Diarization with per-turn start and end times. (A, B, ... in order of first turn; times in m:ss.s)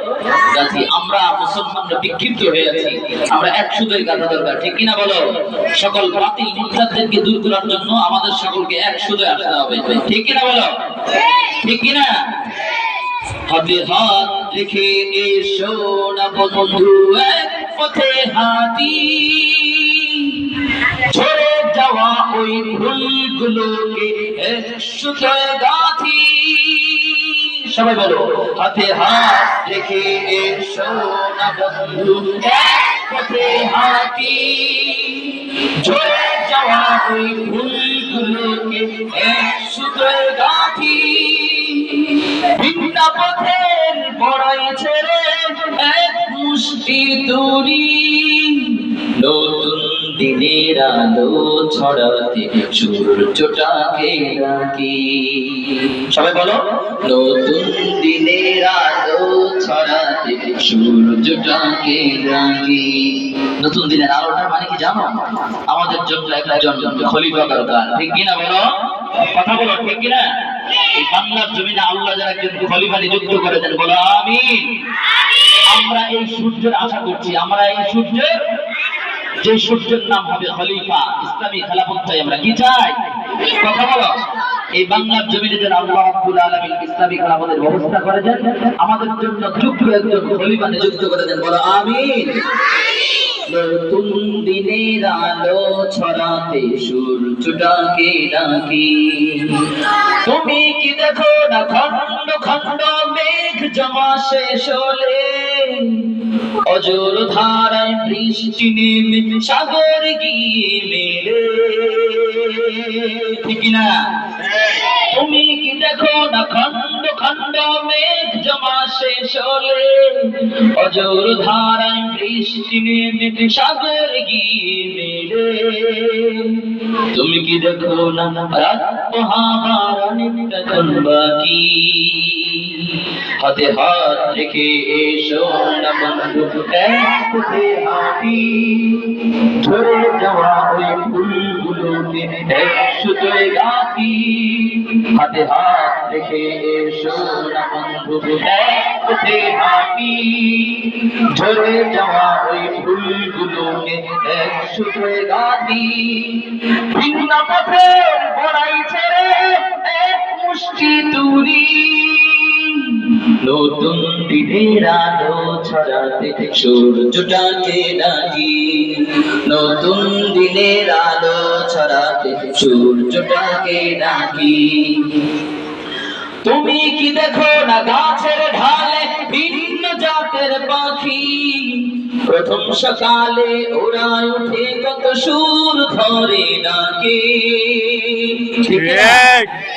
0:00.4-0:05.2 A
0:05.7-0:12.1 A
0:13.5-1:08.6 A
1:09.2-1:14.7 A
1:15.7-1:18.3 A
1:19.4-1:24.1 A
1:24.7-1:32.4 A
1:33.3-2:55.2 A
2:56.4-3:09.5 A